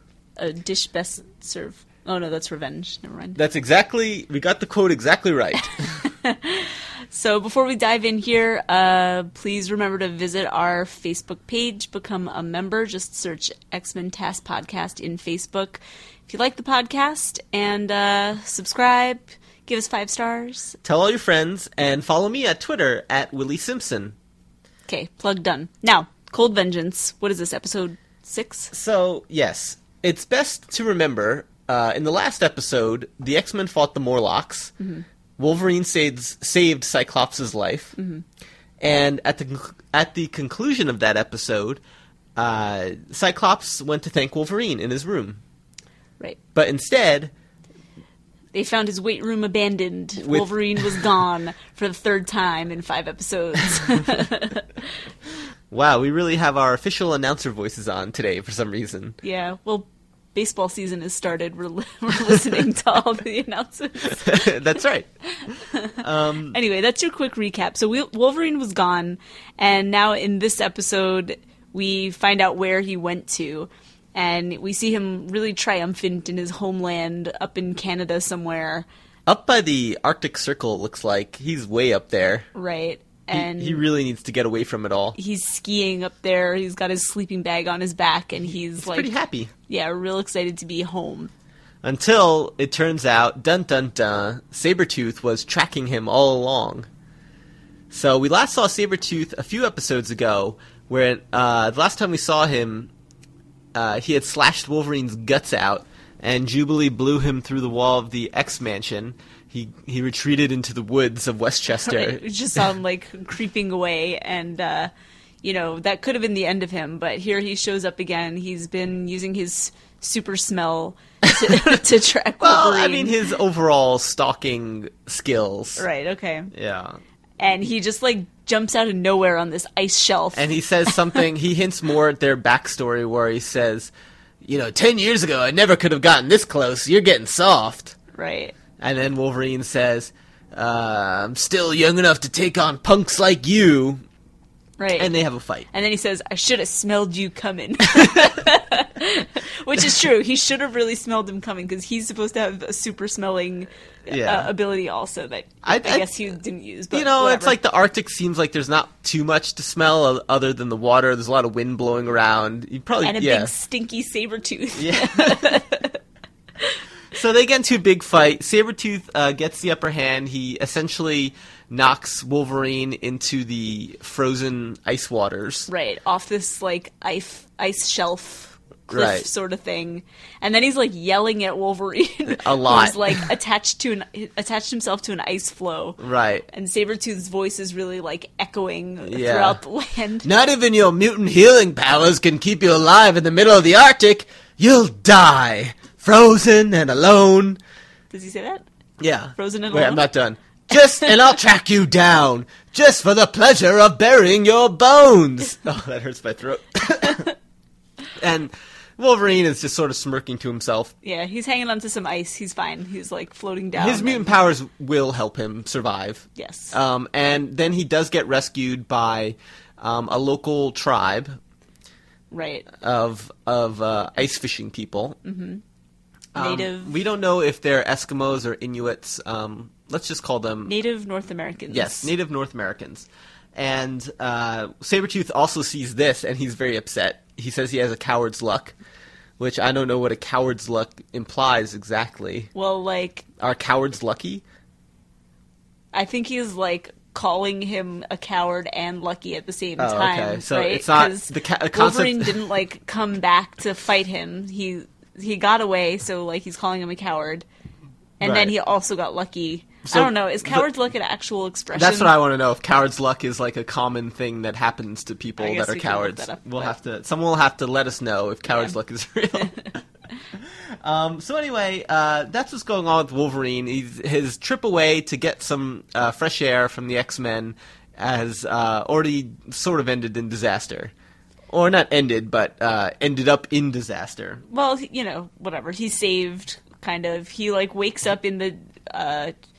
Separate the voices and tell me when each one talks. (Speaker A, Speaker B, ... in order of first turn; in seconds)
Speaker A: 0.4-3.4, 6.0-20.8, 24.9-28.7, 34.8-35.0, 38.0-38.2, 48.5-54.9, 59.2-64.6, 65.3-78.9, 82.5-83.8, 85.2-89.1, 89.7-91.3, 111.8-114.9, 115.4-123.2, 125.8-126.5, 127.4-131.2, 138.1-138.6, 144.8-145.1, 145.7-157.6, 163.0-166.0, 175.7-190.3, 198.1-198.6, 199.4-200.0, 211.0-214.3, 216.4-216.8, 222.3-222.7, 225.2-225.6, 226.3-226.9, 230.7-232.1, 242.6-243.3, 245.9-257.5, 258.2-262.1, 265.4-266.7, 284.5-289.3
Speaker B: 3.4-6.0, 20.8-24.2, 28.7-34.7, 35.4-38.0, 38.8-41.8, 42.4-45.4, 46.5-47.3, 50.2-51.1, 55.7-59.2, 64.1-65.1, 66.0-66.6, 79.3-82.5, 83.3-85.2, 88.5-89.5, 91.8-96.9, 97.9-102.9, 103.7-112.2, 122.4-125.8, 126.5-127.0, 130.3-133.9, 134.4-138.0, 138.8-144.0, 145.0-145.7, 147.9-148.3, 154.1-154.5, 155.6-156.1, 156.9-163.5, 164.8-165.6, 167.1-175.7, 178.9-179.3, 182.3-183.3, 186.0-186.5, 189.0-189.6, 190.2-197.6, 199.0-207.3, 208.2-210.9, 213.8-221.3, 222.8-225.2, 226.3-230.7, 231.7-238.8, 239.4-242.5, 243.4-244.4, 249.8-252.3, 258.2-258.5, 259.9-260.7, 261.8-269.7, 270.4-280.9, 281.5-284.4